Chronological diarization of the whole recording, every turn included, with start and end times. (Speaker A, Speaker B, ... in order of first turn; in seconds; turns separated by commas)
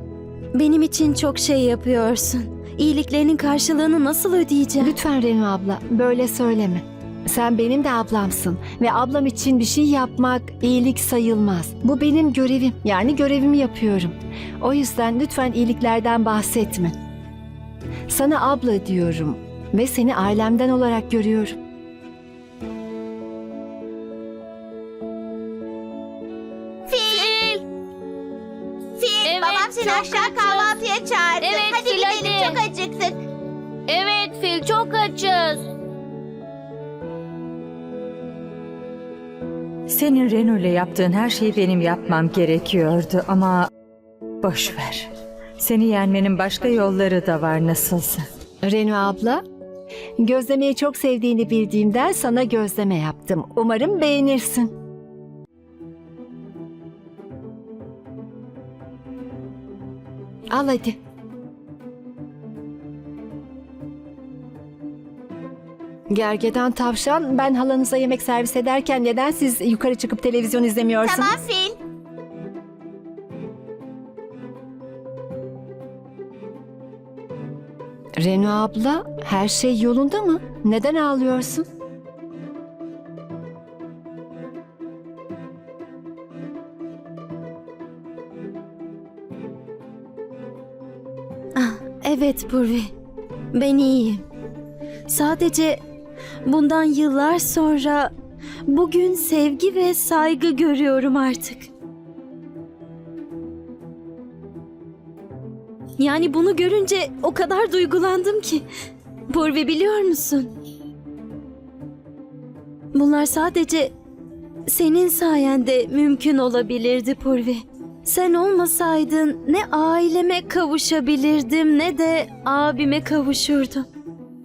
Speaker A: 0.5-4.9, Speaker B: 4.8-16.9, Speaker B: 18.1-21.6, Speaker C: 26.9-27.4, Speaker D: 27.2-27.6, Speaker C: 29.0-33.2, Speaker D: 29.2-30.7, Speaker D: 31.4-32.6, Speaker D: 33.9-35.6, Speaker E: 39.9-43.7, Speaker E: 44.4-45.1, Speaker E: 45.6-48.2, Speaker B: 48.6-49.4, Speaker B: 50.2-54.7, Speaker B: 60.5-61.0, Speaker B: 66.1-71.4, Speaker C: 71.0-71.8, Speaker B: 78.2-81.6, Speaker A: 91.5-92.9, Speaker A: 93.5-94.2, Speaker A: 95.1-95.8, Speaker A: 96.4-98.1, Speaker A: 98.7-101.7, Speaker A: 106.0-108.6, Speaker A: 109.3-110.5, Speaker A: 112.9-113.9, Speaker A: 114.7-123.8